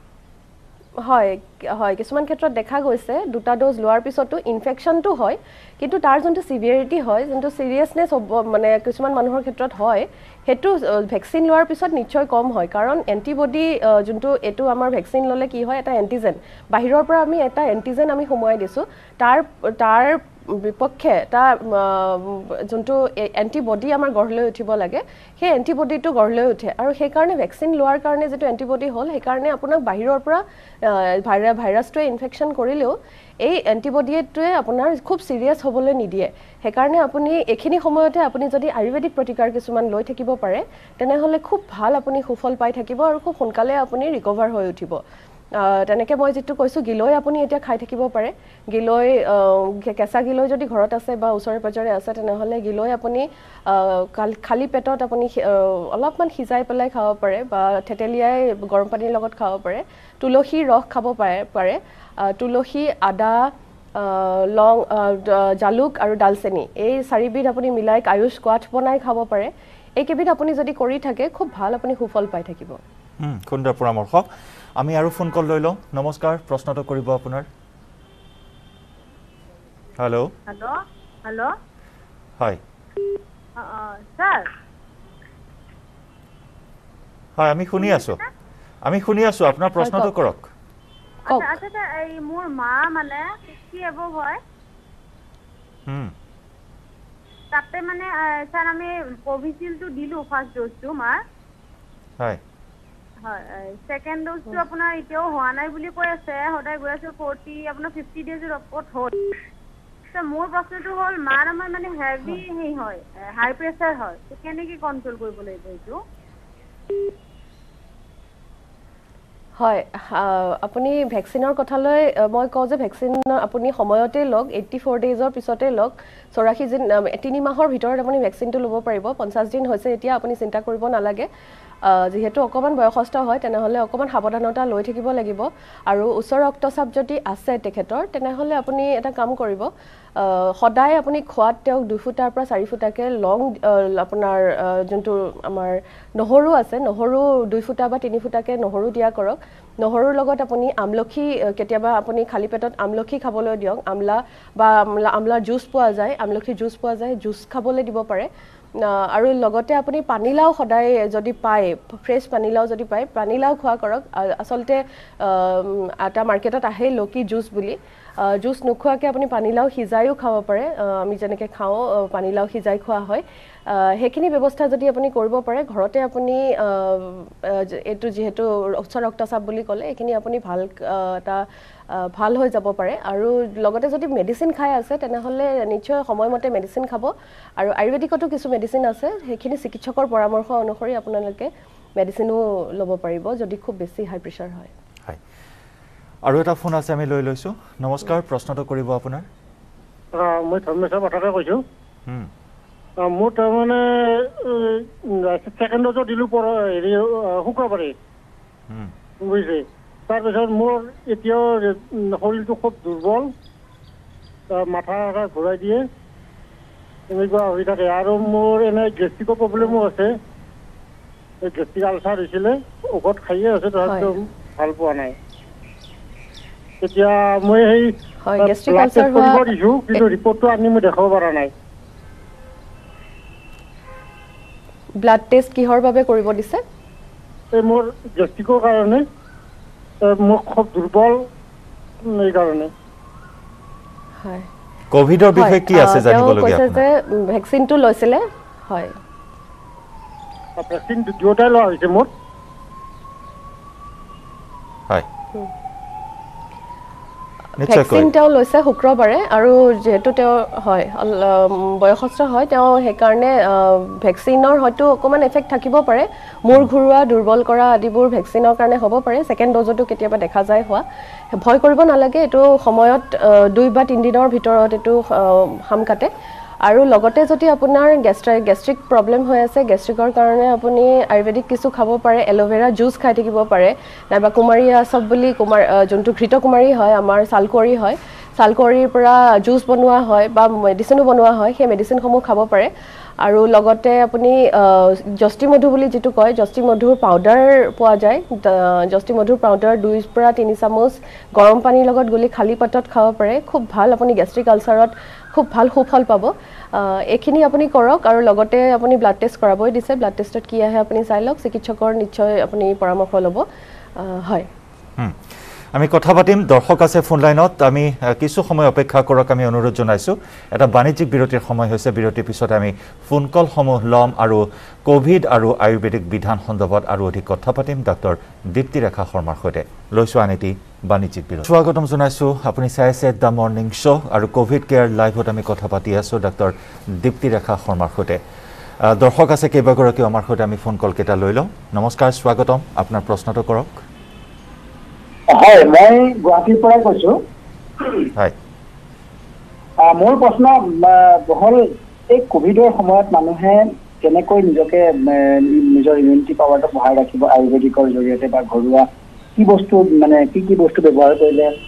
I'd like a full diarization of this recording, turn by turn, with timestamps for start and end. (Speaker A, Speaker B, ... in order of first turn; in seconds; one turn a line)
Speaker A: 1.0-45.0
Speaker A: 45.5-72.8
Speaker B: 73.2-74.3
Speaker B: 74.8-77.5
Speaker B: 80.0-80.3
Speaker C: 80.5-81.5
Speaker C: 83.6-84.5
Speaker B: 87.4-88.2
Speaker C: 87.8-88.3
Speaker B: 88.8-90.5
Speaker A: 89.8-90.1
Speaker C: 91.3-94.4
Speaker A: 91.3-91.6
Speaker B: 95.9-96.1
Speaker C: 97.5-101.2
Speaker C: 103.2-109.2
Speaker C: 110.1-116.0
Speaker A: 119.6-131.3
Speaker A: 131.8-194.7
Speaker B: 196.2-199.3
Speaker D: 200.2-201.6
Speaker D: 203.0-203.8
Speaker D: 204.4-207.9
Speaker D: 209.2-213.3
Speaker D: 214.5-215.8
Speaker D: 217.1-220.1
Speaker D: 221.4-225.2
Speaker A: 223.8-224.1
Speaker D: 226.8-231.5
Speaker A: 228.2-230.0
Speaker A: 235.0-236.6
Speaker D: 237.6-239.0
Speaker D: 240.1-241.2
Speaker D: 242.0-242.7
Speaker A: 244.2-244.5
Speaker B: 244.9-246.8
Speaker A: 245.3-248.9
Speaker D: 250.6-252.1
Speaker B: 257.6-258.1
Speaker A: 257.6-276.1
Speaker A: 276.6-292.7
Speaker A: 293.2-313.4
Speaker A: 314.0-314.5
Speaker B: 315.7-338.2
Speaker B: 338.8-343.8
Speaker E: 345.3-347.2
Speaker E: 349.8-358.9
Speaker E: 359.4-361.5